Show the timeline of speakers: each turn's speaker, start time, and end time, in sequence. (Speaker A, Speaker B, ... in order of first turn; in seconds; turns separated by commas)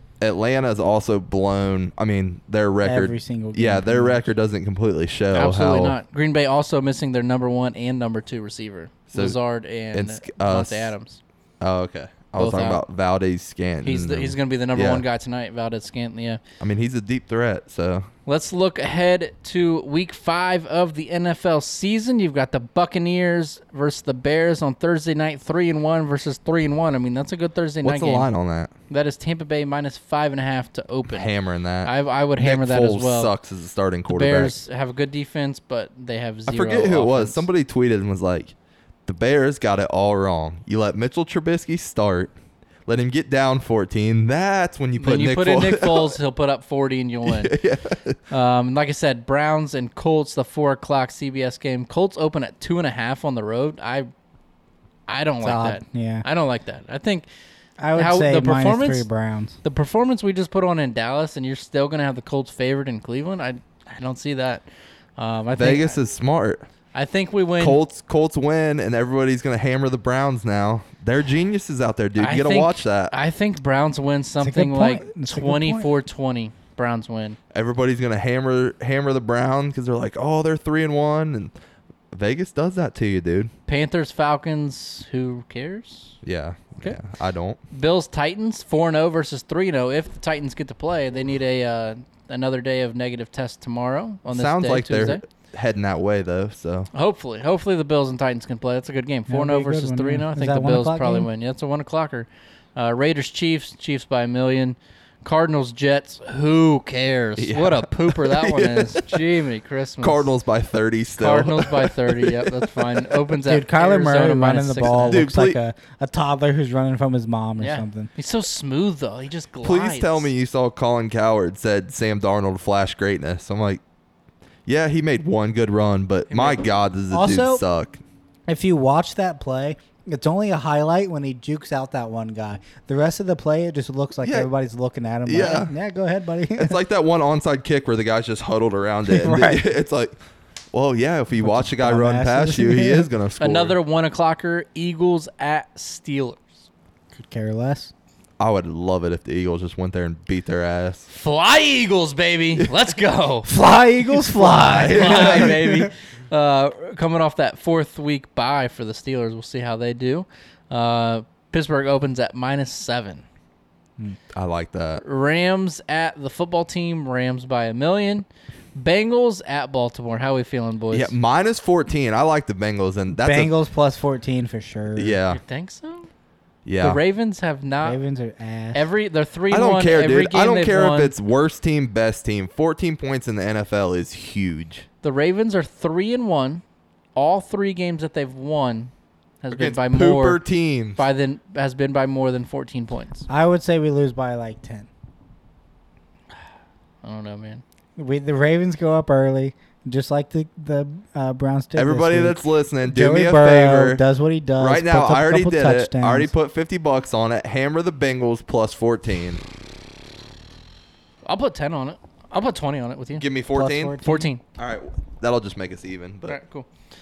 Speaker A: 0.2-6.0, Speaker B: 2.8-4.2, Speaker C: 5.3-11.2, Speaker A: 9.9-10.9, Speaker A: 11.6-15.0, Speaker C: 12.3-12.8, Speaker C: 13.8-16.4, Speaker A: 16.6-18.1, Speaker C: 18.3-28.3, Speaker A: 27.8-28.7, Speaker C: 28.9-31.3, Speaker A: 31.1-34.5, Speaker C: 31.8-33.3, Speaker C: 34.1-37.4, Speaker A: 36.5-38.5, Speaker A: 39.0-42.3, Speaker A: 42.9-46.1, Speaker C: 45.0-47.5, Speaker A: 47.2-48.2, Speaker C: 48.3-54.1, Speaker C: 55.1-57.2, Speaker B: 55.4-56.2, Speaker B: 57.8-59.6, Speaker C: 57.9-59.1, Speaker C: 59.6-64.6, Speaker C: 65.2-66.0, Speaker A: 65.5-66.6, Speaker C: 66.9-67.8, Speaker A: 67.6-73.1, Speaker C: 72.2-77.4, Speaker B: 74.4-75.9, Speaker A: 77.5-81.5, Speaker A: 82.1-83.5, Speaker C: 83.7-86.2, Speaker A: 86.2-87.6, Speaker C: 87.7-95.2, Speaker A: 94.3-96.9, Speaker C: 96.9-110.3, Speaker B: 99.3-101.3, Speaker A: 107.4-109.2, Speaker A: 110.0-113.2, Speaker C: 111.2-115.3, Speaker B: 113.4-118.1, Speaker A: 115.1-115.6, Speaker C: 117.6-120.3, Speaker A: 119.6-123.8, Speaker A: 124.7-128.0, Speaker C: 126.3-126.6, Speaker B: 127.1-127.6, Speaker B: 128.5-136.8, Speaker A: 134.2-134.5, Speaker A: 135.3-135.7, Speaker A: 136.6-140.1, Speaker B: 139.1-139.6, Speaker A: 140.7-143.8, Speaker B: 141.4-143.1, Speaker C: 143.4-146.5, Speaker B: 147.1-147.9, Speaker A: 148.4-151.1, Speaker C: 151.1-153.5, Speaker B: 153.5-155.9, Speaker A: 154.4-155.6, Speaker C: 154.4-163.2, Speaker A: 164.3-165.0, Speaker C: 165.0-171.1, Speaker A: 170.9-173.5, Speaker B: 173.1-175.2, Speaker A: 174.9-175.4, Speaker C: 175.3-176.1, Speaker A: 176.7-177.0, Speaker C: 176.8-178.0, Speaker B: 177.8-178.8, Speaker C: 178.7-181.1, Speaker A: 179.5-184.8, Speaker C: 185.0-186.6, Speaker C: 187.1-190.4, Speaker A: 189.5-191.0, Speaker C: 190.9-193.2, Speaker B: 193.3-194.9, Speaker C: 197.0-197.6, Speaker B: 198.0-206.3, Speaker A: 201.8-204.0, Speaker A: 204.6-209.4, Speaker C: 211.2-213.2, Speaker A: 213.2-214.0, Speaker B: 213.5-214.3, Speaker C: 214.0-214.4, Speaker A: 214.6-216.4, Speaker C: 216.3-216.7